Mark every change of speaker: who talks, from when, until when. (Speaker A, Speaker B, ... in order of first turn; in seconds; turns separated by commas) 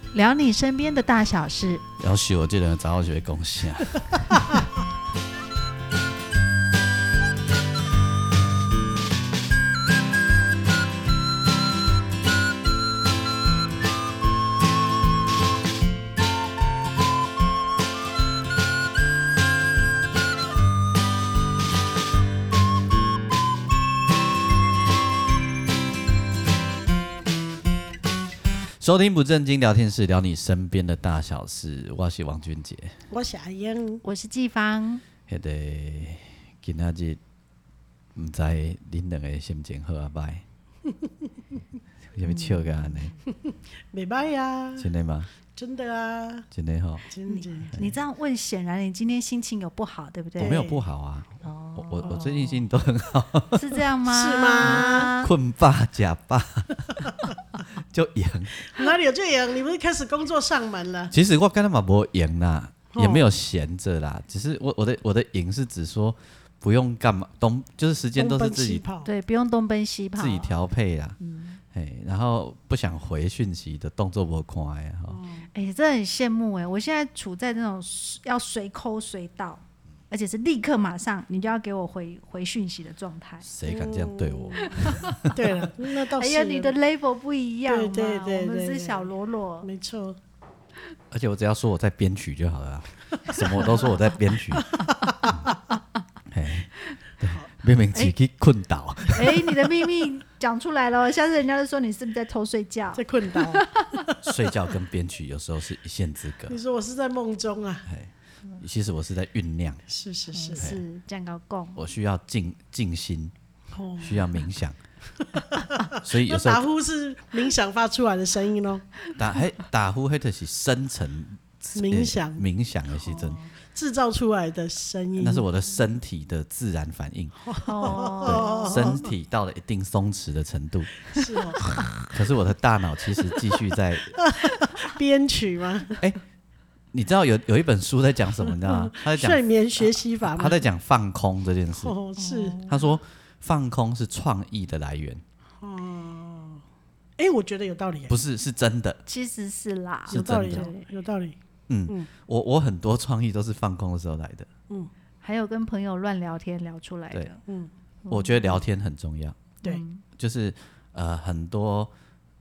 Speaker A: 0.1-1.9, Speaker B: 2.0-4.4, Speaker B: 28.6-33.0, Speaker C: 33.1-34.0, Speaker A: 34.0-35.0, Speaker B: 35.3-37.2, Speaker B: 38.1-40.4, Speaker B: 42.1-43.1, Speaker A: 42.2-43.1, Speaker C: 43.3-44.9, Speaker B: 44.8-45.3, Speaker C: 45.5-46.5, Speaker B: 46.5-47.1, Speaker C: 47.1-47.7, Speaker A: 47.3-50.7, Speaker B: 50.4-53.8, Speaker C: 50.4-50.8, Speaker A: 51.4-52.6, Speaker A: 53.5-55.3, Speaker C: 54.1-55.1, Speaker B: 54.7-58.6, Speaker C: 58.7-61.1, Speaker B: 61.1-68.8, Speaker C: 62.9-63.3, Speaker C: 68.2-69.1, Speaker A: 69.0-70.6, Speaker B: 70.2-71.2, Speaker A: 71.2-71.6, Speaker B: 71.7-75.2, Speaker C: 75.1-75.5, Speaker A: 75.5-83.5, Speaker B: 83.5-85.5, Speaker C: 83.7-86.8, Speaker A: 84.6-85.3, Speaker A: 86.1-89.7, Speaker C: 87.7-89.1, Speaker C: 89.6-90.2, Speaker B: 91.1-95.5, Speaker C: 93.3-93.8, Speaker C: 94.5-95.3, Speaker B: 96.3-99.6, Speaker A: 99.1-104.0, Speaker C: 103.0-104.2, Speaker B: 104.2-106.6, Speaker C: 106.5-107.9, Speaker B: 107.9-109.8, Speaker C: 109.9-110.6, Speaker A: 110.3-111.8, Speaker B: 110.6-110.8, Speaker B: 111.8-113.3, Speaker C: 113.7-114.3, Speaker B: 114.0-114.8, Speaker C: 115.4-118.9, Speaker B: 116.0-116.7, Speaker B: 119.2-123.4, Speaker C: 121.8-122.5, Speaker C: 123.0-125.5, Speaker B: 125.2-131.0, Speaker C: 127.4-129.0, Speaker A: 127.6-129.0, Speaker C: 131.1-131.8, Speaker B: 132.1-134.2, Speaker C: 134.2-136.0, Speaker B: 136.9-142.0, Speaker C: 138.6-140.6, Speaker C: 141.8-142.6, Speaker A: 142.2-143.0, Speaker B: 142.7-145.2, Speaker C: 145.6-146.6, Speaker C: 147.2-148.2, Speaker B: 148.1-149.0, Speaker A: 149.1-150.9, Speaker C: 150.1-151.3, Speaker B: 150.1-150.7, Speaker B: 151.7-154.5, Speaker A: 155.2-157.4, Speaker C: 157.5-157.7, Speaker A: 158.1-158.6, Speaker B: 158.1-159.4, Speaker A: 159.6-160.0, Speaker B: 160.2-161.9